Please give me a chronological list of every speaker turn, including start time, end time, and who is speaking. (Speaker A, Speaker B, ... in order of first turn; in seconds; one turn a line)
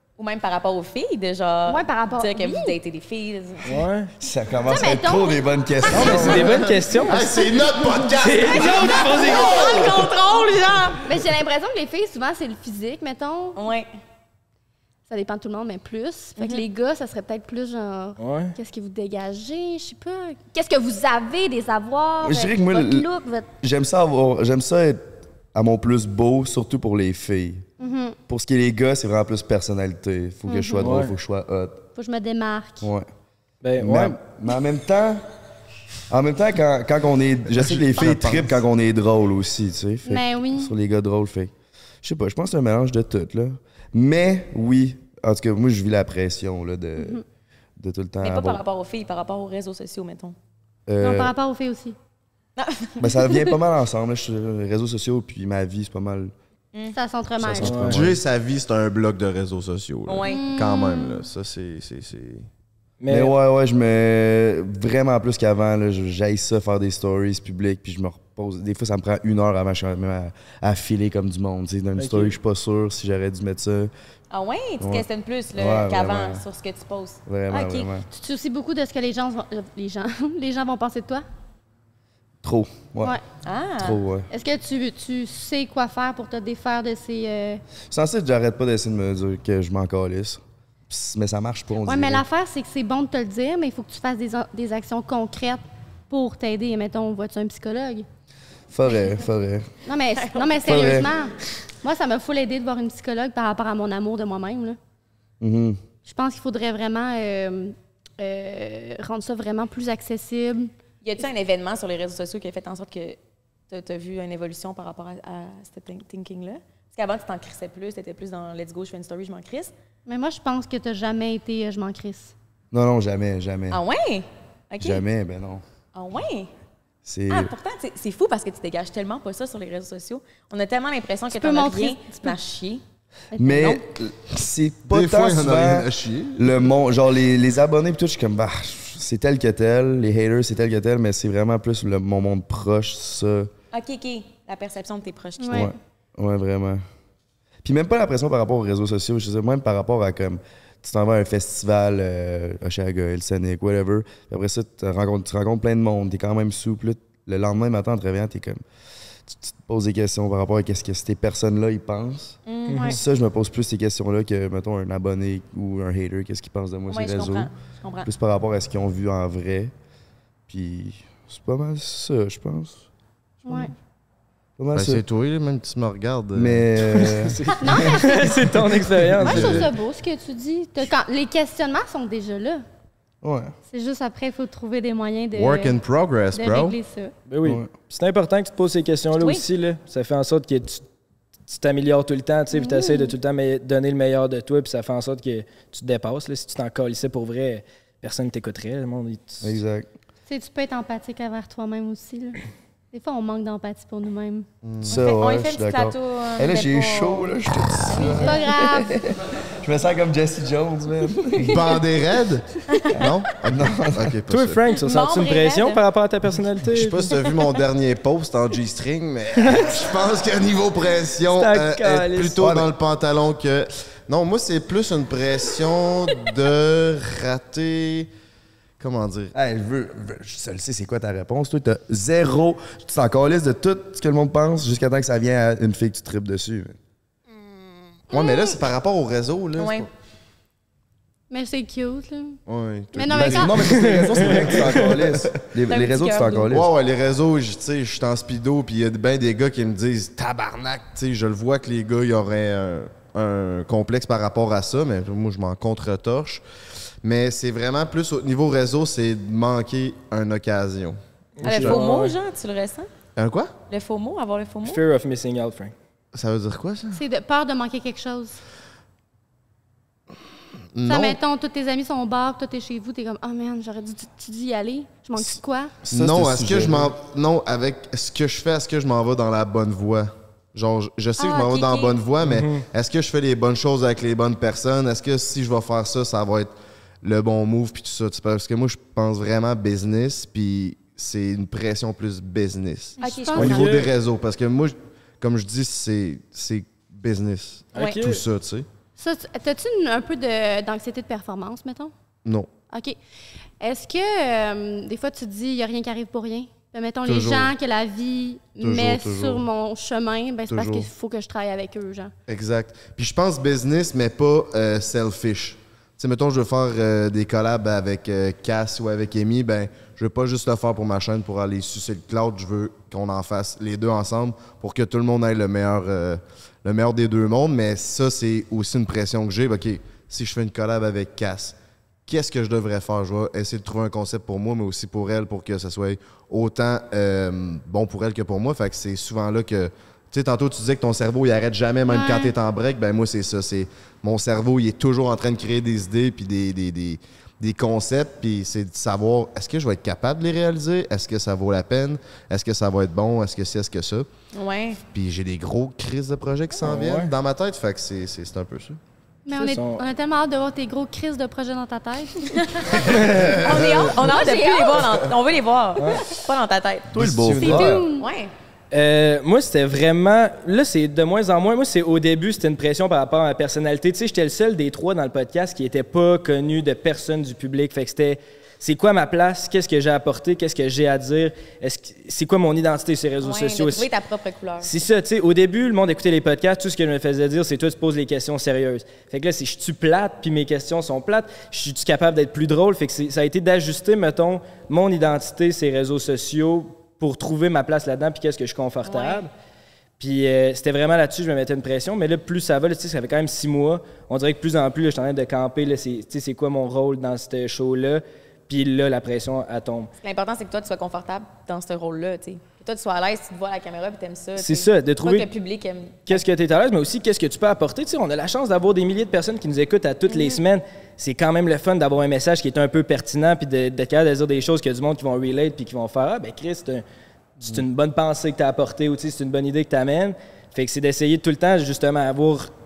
Speaker A: 0.2-3.9
Speaker B: 1.7-2.8
Speaker C: 3.7-4.1
Speaker D: 4.2-6.5
Speaker B: 4.7-6.4
Speaker C: 5.9-7.3
Speaker E: 6.3-9.1
Speaker B: 7.2-7.5
Speaker C: 8.1-9.8
Speaker A: 8.5-11.0
Speaker B: 8.9-10.1
Speaker B: 11.1-13.6
Speaker A: 13.6-13.9
Speaker B: 15.1-23.5
Speaker A: 16.4-16.6
Speaker C: 18.2-18.6
Speaker D: 22.2-23.1
Speaker D: 23.6-27.6
Speaker B: 27.8-28.2
Speaker D: 28.3-31.8
Speaker B: 30.5-30.9
Speaker C: 30.8-31.1
Speaker B: 31.9-32.9
Speaker D: 32.8-33.1
Speaker C: 33.6-34.2
Speaker D: 33.8-35.2
Speaker D: 36.1-41.5
Speaker E: 37.5-38.6
Speaker B: 40.1-40.7
Speaker D: 42.0-47.2
Speaker B: 47.0-47.2
Speaker D: 47.8-48.6
Speaker A: 48.2-50.4
Speaker D: 50.9-51.3
Speaker B: 51.0-52.0
Speaker A: 52.6-53.3
Speaker D: 53.0-56.3
Speaker B: 56.9-57.9
Speaker D: 57.4-58.2
Speaker C: 57.6-58.1
Speaker E: 57.9-62.5
Speaker A: 60.1-60.5
Speaker B: 60.2-61.2
Speaker C: 63.0-63.3
Speaker D: 63.1-73.9
Speaker C: 72.0-72.3
Speaker A: 74.3-77.9
Speaker D: 74.8-76.4
Speaker D: 77.3-78.1
Speaker B: 78.1-81.2
Speaker D: 82.4-83.2
Speaker A: 83.5-84.0
Speaker D: 83.8-84.3
Speaker B: 84.3-87.6
Speaker D: 87.9-92.2
Speaker B: 91.8-98.1
Speaker D: 98.7-99.7
Speaker B: 99.9-104.8
Speaker A: 100.1-101.1
Speaker D: 100.7-101.1
Speaker D: 105.4-105.8
Speaker B: 106.0-110.7
Speaker A: 111.0-113.2
Speaker A: 113.7-119.7
Speaker B: 120.1-122.3
Speaker D: 122.7-123.8
Speaker A: 123.7-125.0
Speaker D: 124.8-125.6
Speaker A: 125.9-126.5
Speaker D: 127.0-127.5
Speaker A: 127.3-132.8
Speaker B: 131.3-132.4
Speaker B: 133.3-133.8
Speaker D: 133.4-143.5
Speaker E: 134.9-136.7
Speaker A: 143.7-145.7
Speaker B: 145.4-145.7
Speaker D: 145.5-146.8
Speaker D: 147.6-158.6
Speaker D: 159.3-167.5
Speaker A: 162.5-163.0
Speaker C: 162.7-163.0
Speaker A: 166.9-168.1
Speaker D: 168.1-169.7
Speaker D: 170.5-172.9
Speaker B: 173.5-173.7
Speaker D: 174.6-175.0
Speaker E: 174.7-176.7
Speaker D: 176.3-177.8
Speaker C: 176.9-179.7
Speaker B: 177.6-178.6
Speaker E: 179.2-179.7
Speaker B: 179.2-182.7
Speaker D: 183.2-183.6
Speaker B: 183.7-185.8
Speaker E: 185.3-186.8
Speaker B: 186.3-187.1
Speaker C: 187.3-190.8
Speaker D: 187.4-187.7
Speaker A: 189.2-189.4
Speaker C: 191.5-199.6
Speaker B: 192.5-193.2
Speaker D: 199.4-199.9
Speaker B: 200.3-202.4
Speaker B: 202.9-204.5
Speaker E: 204.6-205.0
Speaker D: 204.9-211.6
Speaker A: 204.9-208.5
Speaker B: 208.0-209.0
Speaker B: 211.4-211.8
Speaker E: 211.4-214.6
Speaker A: 212.7-213.2
Speaker D: 213.4-214.1
Speaker C: 214.3-217.1
Speaker A: 214.8-215.8
Speaker E: 216.7-228.1
Speaker C: 219.4-219.7
Speaker C: 221.3-222.4
Speaker D: 222.4-222.7
Speaker E: 228.8-229.3
Speaker D: 229.3-236.8
Speaker E: 238.1-239.9
Speaker B: 238.1-238.6
Speaker A: 239.6-239.9
Speaker B: 241.3-242.4
Speaker E: 242.5-245.2
Speaker B: 242.9-243.6
Speaker D: 243.1-246.7
Speaker C: 243.8-244.9
Speaker A: 245.7-246.5
Speaker E: 246.5-256.4
Speaker E: 257.0-261.0
Speaker C: 261.4-262.2
Speaker A: 261.4-262.9
Speaker E: 263.2-263.5
Speaker A: 263.7-264.8
Speaker C: 264.6-265.7
Speaker E: 266.1-267.0
Speaker B: 266.9-268.4
Speaker E: 270.7-271.2
Speaker B: 270.9-275.7
Speaker D: 275.8-276.9
Speaker E: 275.9-298.7
Speaker B: 281.2-282.0
Speaker C: 282.2-282.6
Speaker B: 293.0-293.6
Speaker A: 293.0-293.9
Speaker C: 293.4-293.8
Speaker C: 297.8-298.2
Speaker A: 297.8-298.0
Speaker B: 299.0-301.9
Speaker E: 302.2-302.5
Speaker B: 302.7-303.0
Speaker B: 303.6-312.1
Speaker E: 307.1-307.5
Speaker E: 308.6-309.5
Speaker E: 310.5-310.9
Speaker E: 312.3-354.1
Speaker B: 341.9-342.3
Speaker A: 354.3-354.8
Speaker E: 354.9-358.8
Speaker C: 356.6-357.1
Speaker B: 359.3-362.7
Speaker C: 359.3-359.8
Speaker A: 362.3-366.9
Speaker C: 362.8-363.4
Speaker E: 363.1-363.7
Speaker B: 363.3-364.9
Speaker D: 366.9-367.8
Speaker E: 366.9-367.9
Speaker B: 367.4-368.1
Speaker A: 368.0-368.3
Speaker C: 368.7-383.9
Speaker A: 383.2-384.7
Speaker C: 384.6-399.3
Speaker A: 398.8-399.2
Speaker C: 400.0-409.9
Speaker A: 410.0-416.2
Speaker C: 414.4-415.3
Speaker C: 416.1-426.9
Speaker A: 420.1-420.4
Speaker C: 427.4-432.5